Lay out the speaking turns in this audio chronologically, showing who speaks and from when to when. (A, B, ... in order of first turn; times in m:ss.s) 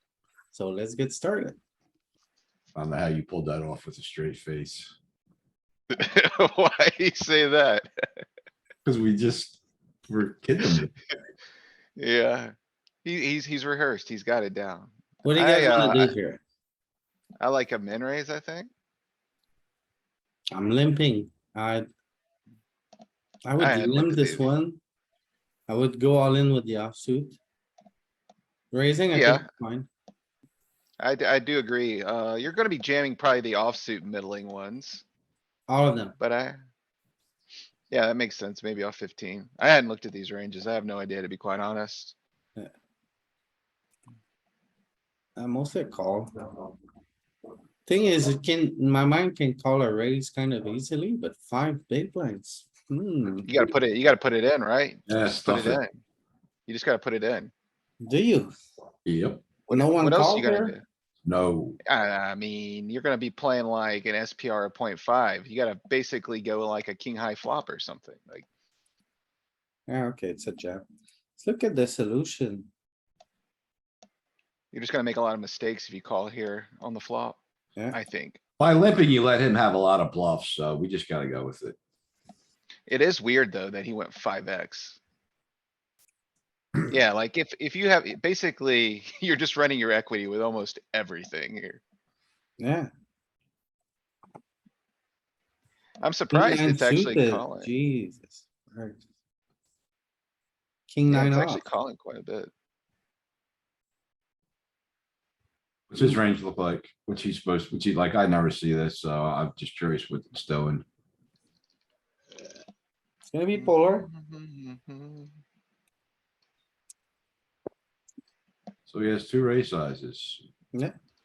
0:00.5-0:01.6 A
0:02.7-0:04.9 B
0:05.9-0:07.9 C
0:08.8-0:10.9 B
0:12.0-0:12.5 C
0:13.0-0:16.1 C
0:15.2-0:16.4 A
0:17.4-0:18.7 C
0:20.5-0:21.9 A
0:23.4-0:24.8 A
0:23.6-0:24.5 C
0:25.7-0:27.4 A
0:28.7-0:29.9 A
0:29.1-0:29.4 C
0:31.0-0:35.0 C
0:35.7-0:36.2 A
0:36.2-0:36.6 C
0:37.9-0:42.2 C
0:45.4-0:46.7 A
0:47.8-0:53.5 A
0:53.4-0:55.9 C
0:55.1-0:55.8 B
0:56.7-0:57.5 C
0:58.0-0:58.5 A
0:59.0-0:59.4 B
0:59.7-1:00.8 C
0:59.7-1:00.8 A
1:01.2-1:01.8 B
1:01.8-1:08.4 C
1:09.9-1:10.8 A
1:11.4-1:12.7 A
1:14.7-1:17.4 C
1:17.9-1:18.4 C
1:18.6-1:21.8 B
1:22.9-1:25.0 C
1:26.9-1:31.8 C
1:32.6-1:32.9 A
1:36.0-1:37.7 C
1:36.3-1:39.0 A
1:40.9-1:41.6 A
1:41.1-1:42.5 C
1:45.9-1:50.8 B
1:53.3-1:54.1 A
1:53.5-1:55.3 C
1:58.9-2:00.4 B